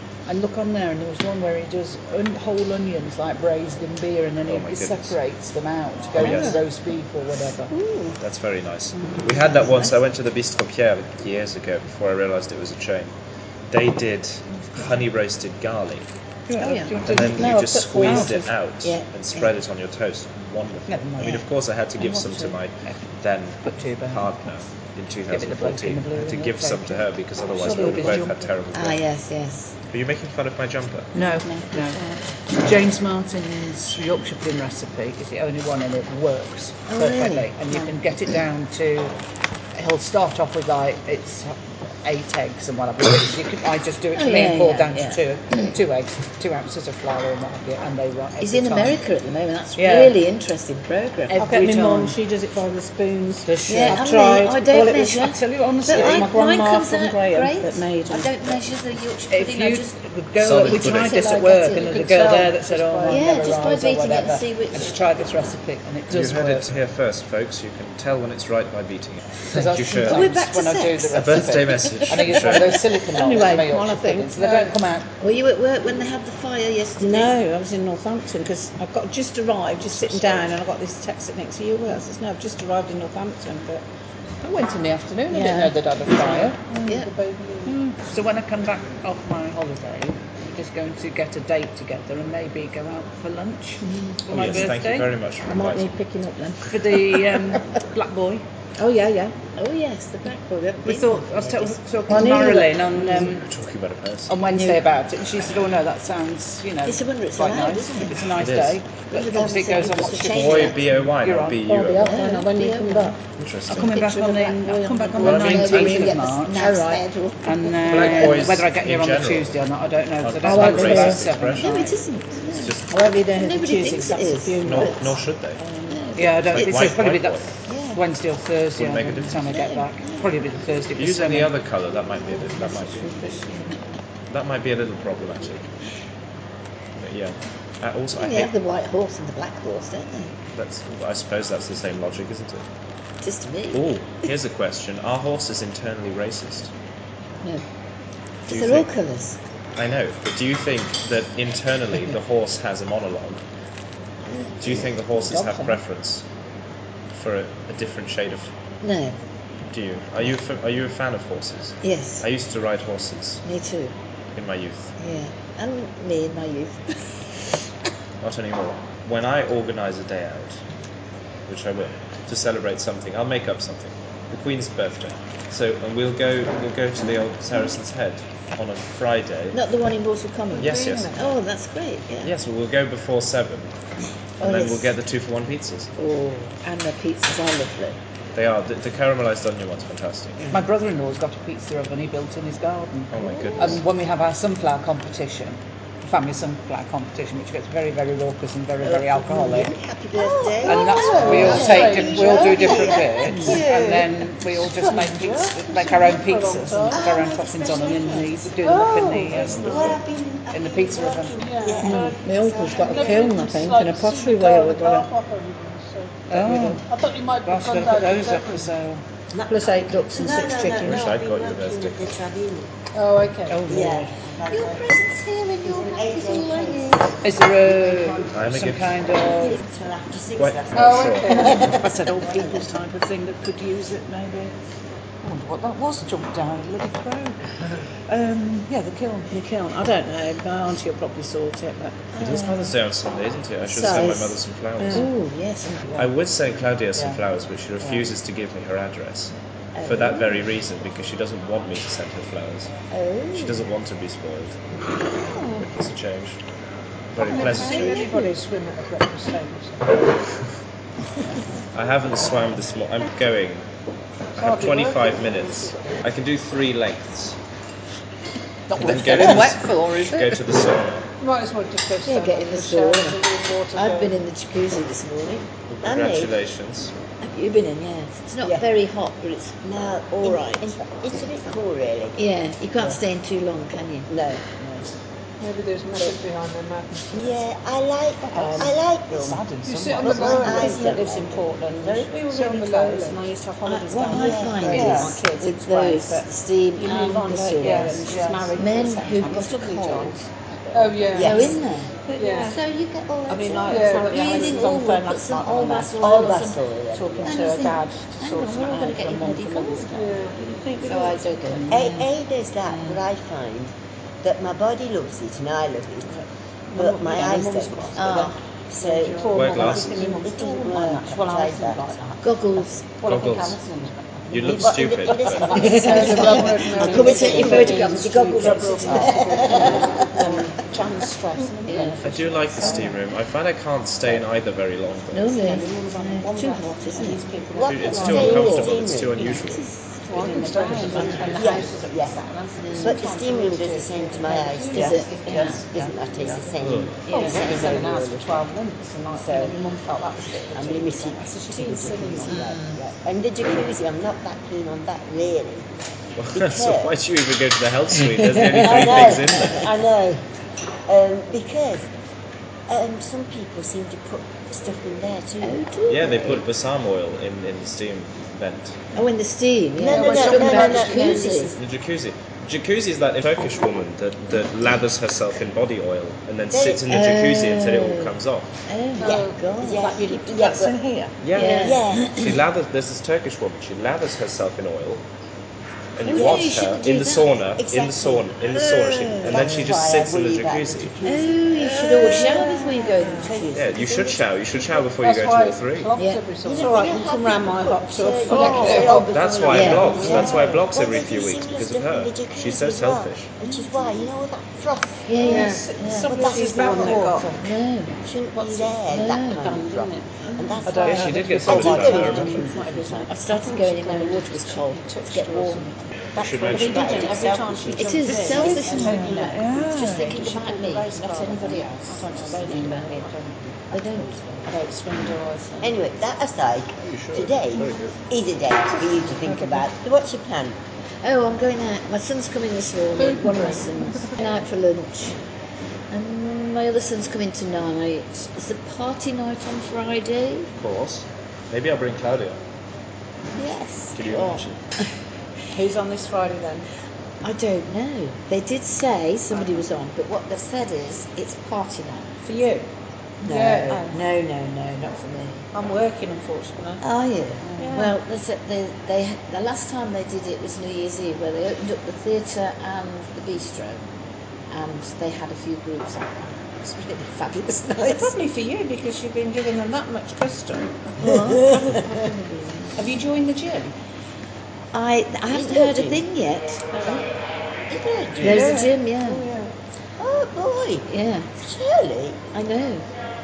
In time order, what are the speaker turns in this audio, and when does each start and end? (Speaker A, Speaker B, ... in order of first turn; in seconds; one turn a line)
Speaker A: 0.3-7.7
Speaker B: 4.5-5.2
Speaker B: 6.1-6.6
Speaker C: 7.7-8.1
Speaker B: 8.2-13.1
Speaker C: 9.6-9.9
Speaker B: 13.7-16.1
Speaker A: 16.5-18.5
Speaker C: 16.6-17.0
Speaker B: 17.0-29.0
Speaker D: 17.4-18.3
Speaker C: 18.0-19.5
Speaker A: 20.9-23.1
Speaker A: 23.6-24.5
Speaker A: 25.3-28.5
Speaker C: 28.7-29.8
Speaker B: 29.9-31.1
Speaker A: 31.1-39.1
Speaker D: 31.4-32.2
Speaker C: 36.9-37.9
Speaker A: 39.7-49.0
Speaker C: 44.1-45.8
Speaker C: 48.4-51.6
Speaker A: 49.8-50.2
Speaker D: 51.3-55.4
Speaker A: 51.4-52.1
Speaker A: 53.5-54.1
Speaker C: 53.7-61.9
Speaker A: 55.2-56.3
Speaker D: 55.9-58.3
Speaker A: 59.3-66.8
Speaker B: 60.4-61.3
Speaker E: 61.7-63.3
Speaker C: 63.1-65.0
Speaker B: 66.1-70.4
Speaker A: 69.4-75.1
Speaker C: 70.0-71.3
Speaker B: 71.1-72.9
Speaker C: 71.8-72.7
Speaker D: 73.1-74.4
Speaker E: 74.4-74.7
Speaker C: 75.2-77.3
Speaker D: 77.0-83.8
Speaker B: 79.9-80.5
Speaker A: 84.4-86.8
Speaker D: 85.3-86.5
Speaker E: 86.7-87.8
Speaker C: 86.8-87.1
Speaker A: 87.6-95.2
Speaker B: 94.3-96.0
Speaker D: 95.5-96.7
Speaker A: 96.7-98.4
Speaker D: 98.8-99.4
Speaker C: 99.6-102.5
Speaker A: 100.8-103.5
Speaker D: 102.1-103.3
Speaker B: 103.1-104.3
Speaker A: 104.3-111.7
Speaker C: 104.5-104.8
Speaker C: 106.8-108.3
Speaker B: 108.4-108.9
Speaker C: 109.1-110.8
Speaker B: 110.1-112.1
Speaker D: 111.6-113.2
Speaker C: 112.0-113.2
Speaker B: 113.4-113.9
Speaker A: 113.7-116.8
Speaker D: 113.8-117.0
Speaker B: 115.2-116.1
Speaker C: 115.2-118.3
Speaker A: 117.4-122.0
Speaker B: 117.9-119.6
Speaker B: 120.2-121.8
Speaker D: 120.4-121.2
Speaker C: 121.5-125.1
Speaker B: 122.5-123.0
Speaker D: 122.9-126.0
Speaker B: 124.6-125.6
Speaker C: 125.9-126.9
Speaker A: 126.2-131.6
Speaker B: 126.3-127.5
Speaker C: 127.7-128.0
Speaker B: 128.8-129.4
Speaker C: 129.5-130.3
Speaker B: 130.9-133.3
Speaker C: 133.0-133.8
Speaker B: 134.3-135.7
Speaker B: 137.0-138.5
Speaker C: 138.1-140.4
Speaker B: 140.5-142.7
Speaker C: 143.2-144.3
Speaker B: 143.7-146.7
Speaker C: 148.5-149.4
Speaker B: 148.5-148.9
Speaker B: 149.8-153.4
Speaker C: 154.3-154.9
Speaker B: 154.6-156.3
Speaker D: 155.3-155.8
Speaker B: 157.1-158.6
Speaker C: 158.8-159.2
Speaker B: 159.7-163.4
Speaker C: 161.8-162.3
Speaker C: 163.4-163.9
Speaker B: 164.3-164.9
Speaker C: 165.0-167.4
Speaker B: 168.2-170.6
Speaker B: 171.5-179.6
Speaker C: 179.5-182.3
Speaker E: 180.6-181.3
Speaker B: 180.6-181.3
Speaker B: 182.2-183.7
Speaker C: 184.4-184.9
Speaker B: 184.4-185.9
Speaker C: 186.0-188.0
Speaker B: 188.3-190.5
Speaker A: 190.4-199.8
Speaker B: 193.1-193.8
Speaker C: 193.2-193.8
Speaker F: 198.9-204.2
Speaker A: 200.6-209.9
Speaker E: 200.6-202.9
Speaker C: 200.9-202.9
Speaker D: 203.3-203.6
Speaker E: 204.5-207.1
Speaker F: 206.9-208.5
Speaker E: 208.6-210.0
Speaker F: 209.4-213.3
Speaker A: 210.5-211.4
Speaker E: 211.4-212.2
Speaker D: 211.8-215.1
Speaker E: 212.8-218.7
Speaker A: 216.3-216.9
Speaker A: 217.4-219.1
Speaker F: 219.3-222.7
Speaker D: 219.5-221.1
Speaker B: 220.7-222.1
Speaker E: 222.9-223.6
Speaker A: 223.5-224.3
Speaker F: 223.7-228.3
Speaker C: 224.5-227.2
Speaker A: 227.2-229.6
Speaker B: 228.3-229.0
Speaker F: 229.0-232.6
Speaker B: 230.4-231.7
Speaker E: 230.7-231.8
Speaker A: 231.6-234.6
Speaker A: 235.2-239.3
Speaker D: 239.3-242.1
Speaker C: 242.1-242.8
Speaker B: 242.2-245.1
Speaker C: 243.7-245.9
Speaker B: 246.0-252.7
Speaker A: 246.9-247.2
Speaker A: 247.8-248.1
Speaker C: 249.8-250.4
Speaker C: 252.9-253.6
Speaker B: 253.3-254.6
Speaker B: 255.4-256.4
Speaker B: 257.1-258.1
Speaker E: 257.2-260.1
Speaker C: 257.6-258.1
Speaker B: 261.7-263.7
Speaker E: 264.4-266.0
Speaker B: 264.4-267.4
Speaker A: 268.7-270.4
Speaker B: 268.7-271.1
Speaker E: 271.2-274.2
Speaker C: 272.1-273.2
Speaker C: 273.7-275.5
Speaker B: 275.7-276.9
Speaker F: 275.8-276.4
Speaker C: 277.2-279.6
Speaker F: 279.6-283.0
Speaker C: 280.2-281.2
Speaker C: 282.1-284.1
Speaker F: 284.1-284.9
Speaker E: 285.4-287.4
Speaker F: 287.1-289.5
Speaker D: 288.3-288.8
Speaker A: 288.3-290.6
Speaker E: 289.6-290.9
Speaker F: 290.0-292.1
Speaker D: 290.0-301.5
Speaker E: 292.3-293.2
Speaker C: 293.6-300.3
Speaker F: 294.0-295.2
Speaker A: 294.7-295.2
Speaker A: 297.6-298.6
Speaker E: 300.7-301.6
Speaker F: 301.1-301.6
Speaker C: 301.2-306.6
Speaker E: 302.1-302.6
Speaker D: 303.3-306.4
Speaker E: 303.7-304.7
Speaker F: 306.0-307.6
Speaker D: 306.9-311.8
Speaker C: 307.2-309.9
Speaker E: 309.9-310.4
Speaker C: 310.8-312.1
Speaker F: 311.7-316.1
Speaker C: 312.7-313.0
Speaker D: 316.1-318.3
Speaker F: 316.7-322.0
Speaker C: 317.9-318.4
Speaker E: 318.8-319.6
Speaker D: 318.8-333.0
Speaker B: 319.3-320.0
Speaker C: 322.2-323.0
Speaker B: 323.0-323.6
Speaker B: 324.3-325.7
Speaker F: 324.4-328.0
Speaker C: 325.5-329.8
Speaker E: 325.6-330.4
Speaker F: 328.6-330.5
Speaker C: 331.6-332.0
Speaker B: 332.0-335.6
Speaker C: 335.1-337.4
Speaker D: 335.3-338.6
Speaker F: 337.5-339.6
Speaker B: 337.7-339.7
Speaker C: 337.9-340.0
Speaker E: 340.1-341.7
Speaker D: 340.1-346.5
Speaker F: 340.9-342.2
Speaker C: 342.6-343.0
Speaker F: 342.8-348.4
Speaker C: 344.7-345.6
Speaker B: 346.6-347.0
Speaker C: 347.0-347.8
Speaker D: 347.1-352.6
Speaker F: 349.1-349.6
Speaker F: 350.5-355.7
Speaker C: 352.3-352.8
Speaker B: 356.1-359.7
Speaker F: 356.3-357.0
Speaker F: 358.4-360.3
Speaker F: 360.9-361.9
Speaker F: 362.7-365.6
Speaker C: 365.4-366.4
Speaker B: 365.9-368.8
Speaker C: 368.9-371.6
Speaker F: 369.8-371.6
Speaker E: 369.9-371.2
Speaker D: 370.6-371.0
Speaker B: 371.6-378.6
Speaker F: 376.5-376.9
Speaker C: 376.9-378.1
Speaker C: 378.6-379.9
Speaker E: 379.0-379.4
Speaker F: 379.0-380.8
Speaker D: 379.7-380.4
Speaker A: 380.2-381.3
Speaker B: 381.2-385.0
Speaker C: 381.3-382.4
Speaker F: 381.4-382.2
Speaker B: 386.0-391.0
Speaker C: 386.1-387.3
Speaker F: 386.1-386.6
Speaker F: 387.6-394.8
Speaker C: 391.0-393.6
Speaker B: 393.5-395.9
Speaker E: 395.0-396.8
Speaker C: 396.0-396.4
Speaker F: 396.4-405.2
Speaker D: 396.5-400.5
Speaker E: 398.2-399.1
Speaker B: 399.1-403.4
Speaker C: 399.5-400.4
Speaker E: 399.8-400.3
Speaker C: 403.4-404.0
Speaker C: 405.1-406.2
Speaker E: 405.2-405.7
Speaker D: 405.2-407.4
Speaker F: 406.0-407.2
Speaker E: 406.6-407.2
Speaker C: 407.4-408.0
Speaker F: 408.0-413.1
Speaker D: 408.3-415.8
Speaker C: 408.9-409.6
Speaker C: 410.3-410.8
Speaker A: 410.6-412.5
Speaker B: 410.9-412.4
Speaker C: 413.1-415.7
Speaker B: 416.1-417.2
Speaker F: 416.2-419.1
Speaker D: 416.4-423.1
Speaker C: 416.5-423.1
Speaker A: 418.7-424.5
Speaker F: 419.7-420.4
Speaker C: 423.7-424.2
Speaker D: 423.7-425.8
Speaker F: 425.6-430.6
Speaker B: 426.8-428.0
Speaker D: 429.2-429.6
Speaker C: 431.0-435.2
Speaker E: 432.9-434.2
Speaker C: 435.9-440.5
Speaker B: 440.6-442.4
Speaker C: 443.4-444.9
Speaker B: 443.9-444.6
Speaker D: 445.5-446.7
Speaker C: 447.2-452.1
Speaker D: 452.2-452.7
Speaker E: 453.2-454.0
Speaker C: 453.2-455.5
Speaker D: 455.5-456.8
Speaker C: 456.8-463.9
Speaker D: 457.5-457.9
Speaker E: 457.6-457.9
Speaker C: 464.5-468.1
Speaker D: 467.9-471.9
Speaker C: 471.0-473.0
Speaker F: 471.0-471.9
Speaker D: 472.8-473.8
Speaker C: 474.7-477.0
Speaker F: 475.3-476.1
Speaker F: 477.7-478.4
Speaker C: 478.1-479.3
Speaker E: 478.2-479.5
Speaker F: 480.0-482.2
Speaker C: 480.9-481.3
Speaker C: 482.3-482.9